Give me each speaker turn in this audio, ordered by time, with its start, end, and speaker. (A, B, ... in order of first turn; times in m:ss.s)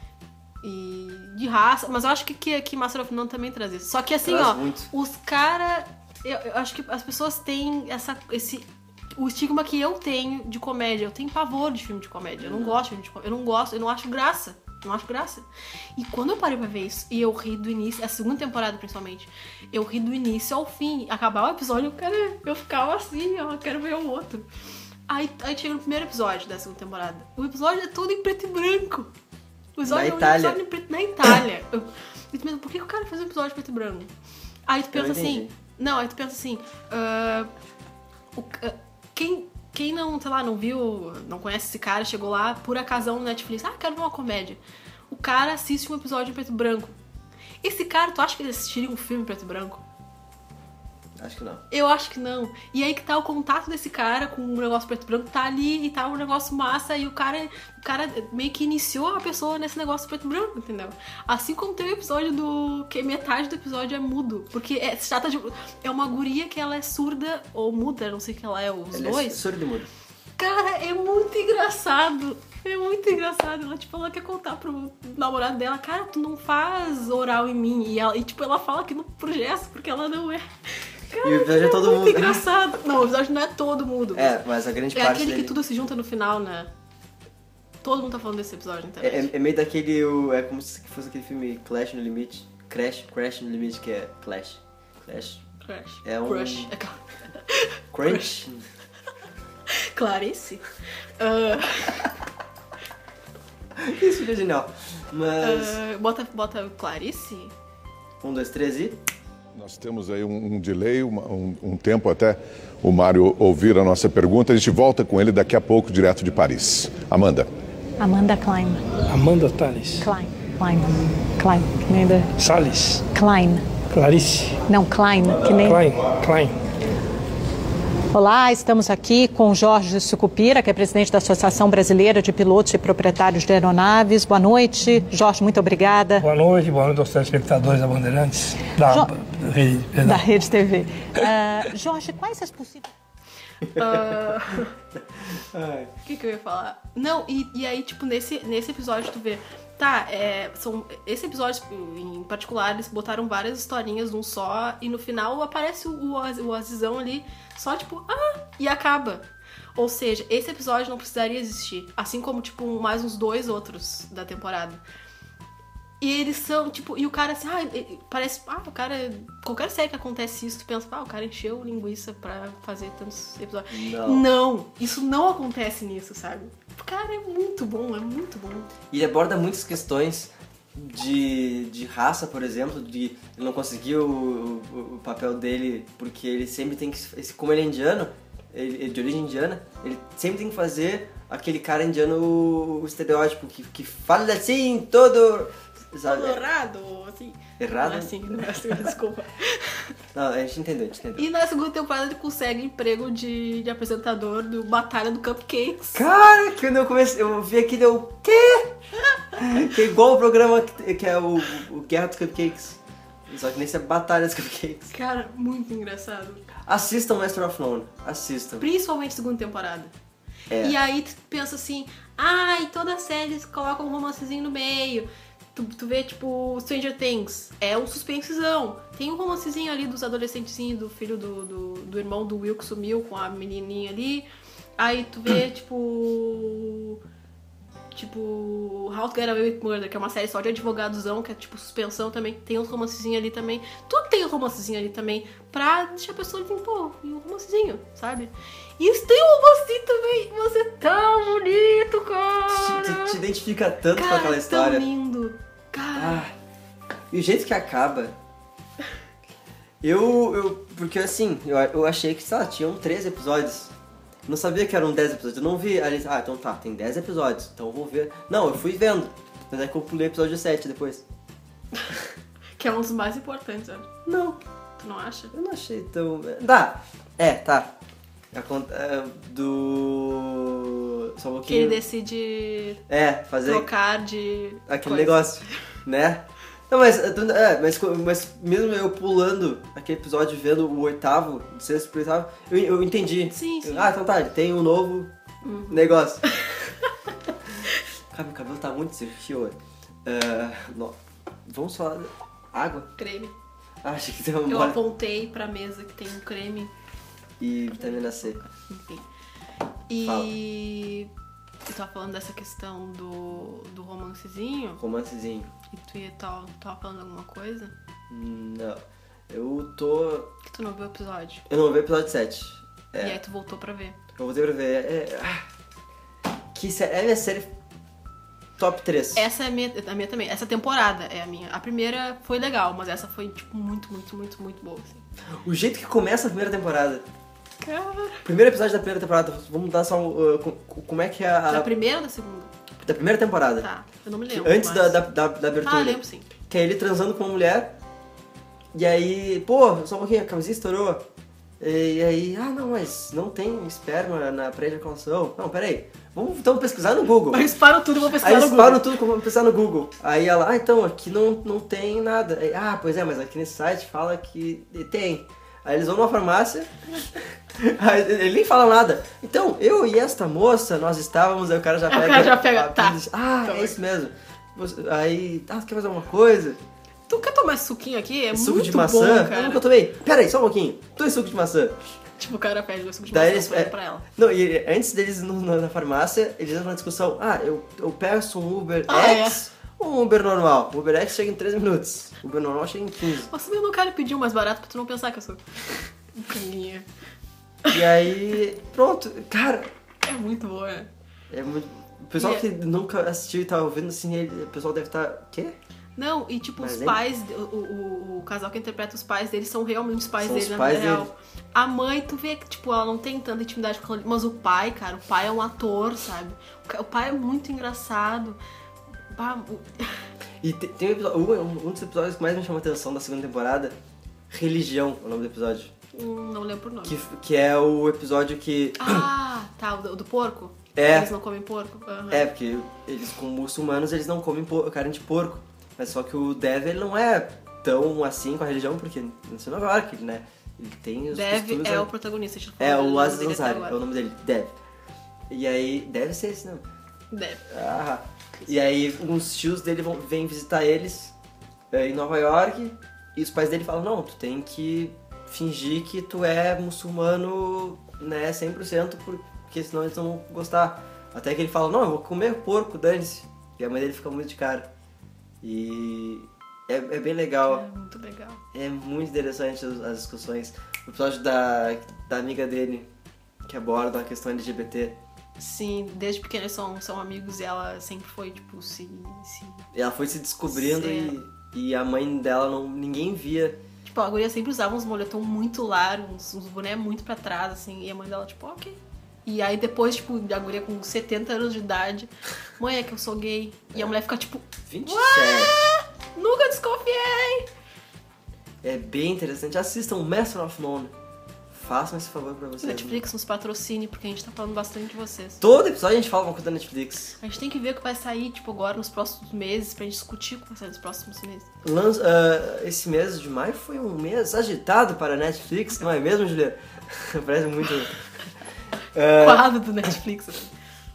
0:00.6-0:08.6 A
0:04.2-0:04.9 B
0:09.2-0:15.4 A
0:12.4-0:12.8 B
0:16.0-0:24.5 A
0:25.1-0:29.1 A
0:29.8-0:34.1 A
0:29.8-0:30.6 B
0:34.7-0:37.5 A
0:34.9-0:35.5 B
0:38.4-0:46.9 A
0:47.6-0:49.8 A
0:51.2-0:51.6 B
0:51.7-1:09.4 A
1:08.9-1:09.9 B
1:10.4-1:24.4 A
1:21.2-1:22.4 B
1:24.1-1:25.6 B
1:24.9-1:26.7 A
1:27.8-1:29.3 A
1:29.0-1:35.4 B
1:35.6-1:38.3 A
1:36.0-1:36.7 B
1:37.9-1:38.6 B
1:39.7-1:42.1 A
1:43.7-1:45.8 B
1:45.4-1:47.5 A
1:48.2-1:49.0 B
1:49.5-1:57.5 C
1:58.0-1:58.9 D
1:59.1-2:00.1 E
2:00.0-2:02.3 D
2:02.4-2:03.1 E
2:03.1-2:03.7 D
2:03.9-2:04.6 E
2:04.7-2:05.8 D
2:05.6-2:06.6 E
2:08.1-2:16.2 D
2:16.2-2:20.2 E
2:20.0-2:22.9 D
2:23.7-2:24.7 A
2:23.7-2:24.0 B
2:25.3-2:25.9 B
2:26.0-2:44.8 A
2:46.0-2:58.7 A
2:53.7-2:54.3 B
2:58.9-3:16.4 B
3:16.0-3:19.9 A
3:17.6-3:18.9 B
3:20.1-3:21.3 B
3:21.2-3:26.0 A
3:25.9-3:28.7 B
3:29.4-3:34.9 B
3:34.9-3:36.4 A
3:36.6-3:38.6 B
3:38.6-3:39.9 A
3:40.5-3:40.8 B
3:40.6-3:54.3 A
3:54.8-3:57.0 A
3:57.9-4:13.2 A
4:12.5-4:14.8 B
4:13.9-4:16.2 A
4:15.9-4:16.3 B
4:17.1-4:18.2 B
4:19.8-4:23.7 B
4:24.3-4:31.0 B
4:32.6-4:33.9 A
4:34.0-4:34.4 B
4:34.8-4:35.3 A
4:35.3-4:37.7 B
4:38.3-4:41.8 B
4:41.4-4:42.8 A
4:42.9-4:43.7 B
4:43.4-4:45.4 A
4:44.7-4:55.1 B
4:53.2-4:53.9 A
4:55.4-4:56.9 A
4:55.7-4:56.2 B
4:58.1-5:02.9 B
5:03.0-5:03.3 A
5:03.8-5:04.8 B
5:04.5-5:06.7 A
5:07.4-5:08.4 B
5:07.8-5:09.0 A
5:09.9-5:11.1 A
5:10.0-5:10.3 B
5:11.7-5:14.8 A
5:14.8-5:15.5 B
5:15.7-5:17.7 A
5:18.1-5:20.3 B
5:20.4-5:21.4 A
5:21.5-5:23.2 B
5:23.0-5:24.0 A
5:24.2-5:25.4 B
5:26.5-5:27.5 B
5:28.6-5:29.3 B
5:29.1-5:35.0 A
5:35.4-5:37.0 B
5:37.6-5:38.2 A
5:38.2-5:41.7 B
5:41.5-5:42.6 A
5:42.8-5:43.7 B
5:43.6-5:45.0 A
5:44.3-5:47.8 B
5:45.6-5:46.3 A
5:48.7-5:51.0 B
5:51.6-5:57.5 B
5:57.3-5:58.8 A
5:58.2-6:16.6 B
6:11.9-6:13.8 A
6:17.1-6:19.6 A
6:18.3-6:21.8 B
6:22.2-6:24.0 A
6:23.1-6:33.3 B
6:28.9-6:29.4 A
6:33.3-6:36.8 A
6:37.7-6:39.7 B
6:40.0-6:40.9 A
6:41.3-6:45.6 B
6:42.2-6:42.4 A
6:46.0-6:58.4 A
6:46.6-6:47.0 B
6:50.2-6:51.1 B
6:59.1-7:00.0 A
7:00.4-7:03.8 B
7:04.3-7:05.7 B
7:05.9-7:07.0 A
7:06.8-7:09.1 B
7:08.8-7:12.3 A
7:10.7-7:11.1 B
7:12.1-7:21.9 B
7:21.1-7:23.8 A
7:22.6-7:24.6 B
7:25.3-7:26.6 B
7:27.1-7:27.5 A
7:27.5-7:31.1 B
7:31.7-7:44.7 B
7:45.4-7:47.6 B
7:47.4-7:48.4 A
7:48.5-7:52.9 B
7:53.4-7:55.0 B
7:55.4-7:59.6 A
7:59.7-8:03.6 B
8:00.5-8:01.1 A
8:03.8-8:17.5 A
8:14.7-8:15.6 B
8:18.6-8:20.9 B
8:21.5-8:23.0 B
8:22.6-8:25.4 A
8:25.4-8:27.2 B
8:27.2-8:31.5 A
8:31.6-8:37.9 B
8:38.9-8:39.5 B
8:39.2-8:40.5 A